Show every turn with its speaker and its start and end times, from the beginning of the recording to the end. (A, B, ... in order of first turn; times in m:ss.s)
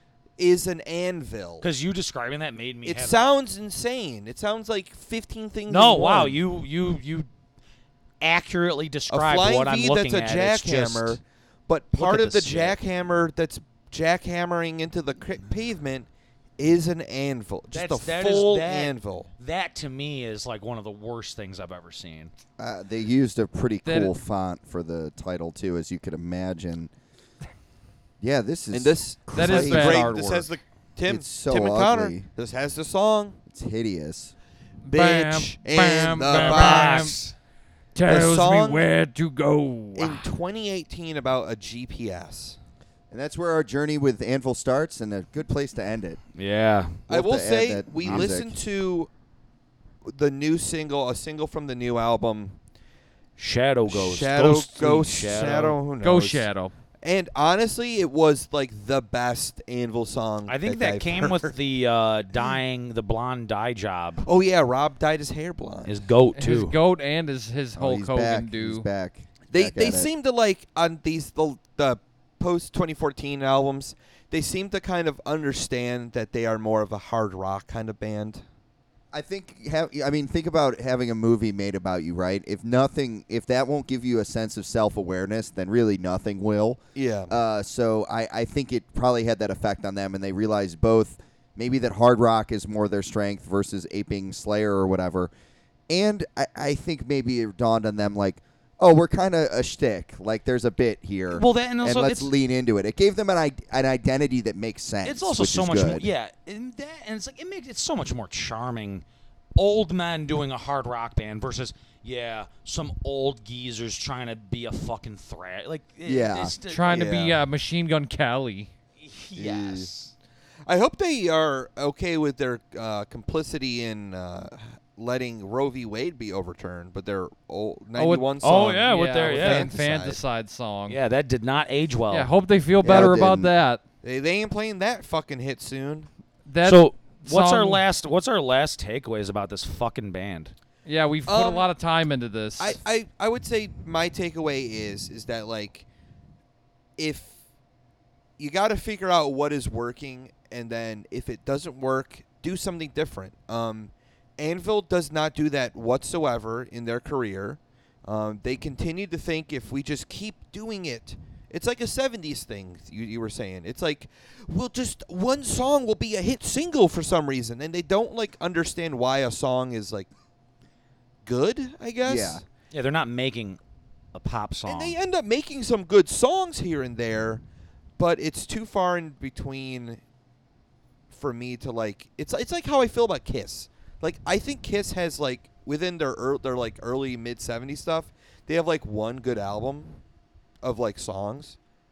0:00.4-0:01.6 A
0:01.6-0:03.2 B
0:02.8-0:06.4 A
0:05.7-0:07.3 B
0:08.2-0:11.2 B
0:09.1-0:19.3 A
0:11.9-0:12.8 B
0:17.7-0:22.3 B
0:22.6-0:26.9 C
0:23.8-0:24.1 D
0:28.2-0:30.1 C
0:28.7-0:33.4 A
0:29.3-0:30.5 D
0:31.0-0:32.3 C
0:33.5-0:34.3 C
0:34.9-0:37.2 D
0:34.9-0:37.1 A
0:36.2-0:37.3 B
0:37.9-0:40.3 D
0:38.0-0:38.8 A
0:40.0-0:42.6 A
0:43.1-0:46.2 C
0:46.3-0:47.0 B
0:47.1-0:49.1 A
0:47.1-0:48.6 C
0:48.0-0:48.3 B
0:50.0-0:52.6 A
0:53.4-0:55.8 B
0:53.9-0:56.5 A
0:56.0-0:56.7 D
0:57.0-1:01.6 A
1:00.5-1:04.2 B
1:04.2-1:05.9 A
1:05.8-1:06.8 B
1:06.4-1:08.8 D
1:07.8-1:10.1 C
1:09.5-1:18.4 A
1:19.1-1:35.3 C
1:26.9-1:27.3 A
1:35.9-1:46.1 C
1:41.3-1:42.3 B
1:45.0-1:49.0 B
1:49.6-1:57.1 B
1:56.0-1:56.5 C
1:56.7-1:58.7 D
1:56.9-1:57.4 A
1:59.0-2:00.1 B
1:59.3-1:59.9 C
2:00.7-2:10.2 A
2:08.0-2:11.0 D
2:08.4-2:09.7 B
2:10.9-2:12.3 B
2:12.1-2:13.8 D
2:12.8-2:13.5 C
2:14.0-2:16.1 A
2:16.4-2:17.8 D
2:16.6-2:20.5 B
2:20.8-2:22.8 D
2:21.3-2:21.7 A
2:22.6-2:25.8 A
2:27.0-2:27.3 A
2:28.4-2:50.1 A
2:51.2-2:52.4 A
2:52.0-2:52.4 C
2:52.7-2:53.6 B
2:54.1-2:55.0 B
2:54.7-2:57.4 A
2:58.0-3:00.0 A
3:01.1-3:10.0 A
3:10.6-3:11.6 A